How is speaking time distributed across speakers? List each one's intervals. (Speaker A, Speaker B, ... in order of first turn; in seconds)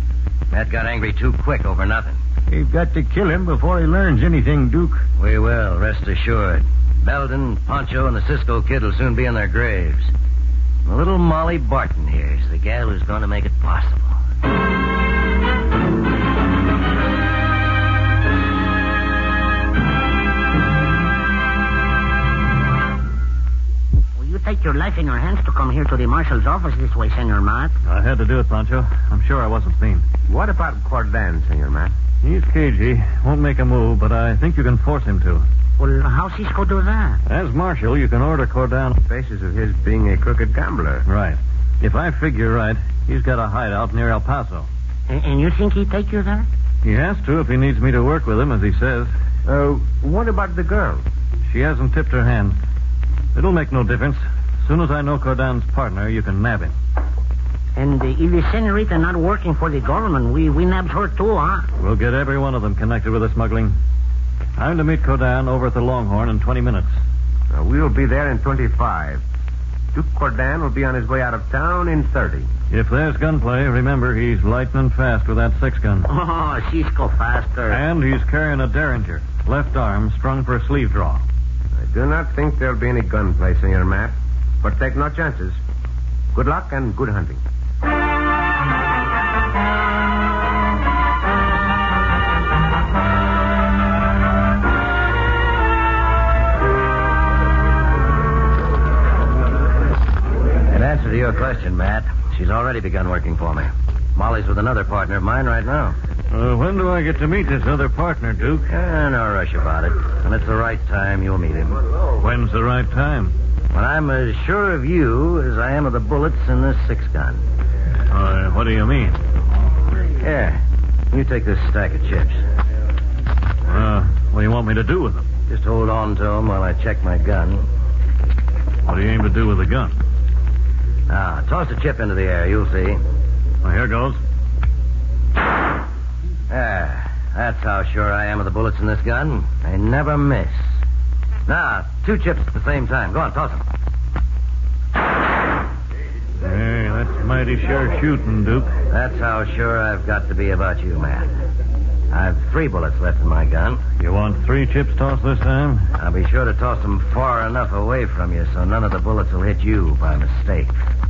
Speaker A: 0.5-2.2, 5.2-10.1, 10.8-14.2, 100.7-106.0, 108.7-111.8, 113.7-117.4, 120.2-122.4, 125.5-127.7, 131.1-133.0, 136.5-140.8, 141.5-143.7, 148.9-151.3, 152.1-153.8, 156.0-160.8
Speaker B: 2.5-5.0
Speaker C: 24.2-27.8, 35.8-37.2, 45.1-46.5, 57.8-61.7, 76.1-77.8
Speaker D: 27.9-30.1, 32.2-35.5, 37.3-39.0, 41.1-44.7, 46.8-49.1, 51.5-52.6, 53.4-56.8, 61.8-63.8, 64.6-67.0, 72.7-76.1, 77.7-81.2, 106.3-108.7, 112.2-113.3, 118.1-119.2, 123.7-125.3, 128.9-130.0, 133.6-134.2, 146.4-148.7, 154.0-155.9
Speaker E: 30.3-31.9, 39.0-41.1, 49.5-51.0, 67.5-69.2, 69.9-72.5, 81.8-85.6, 86.3-87.4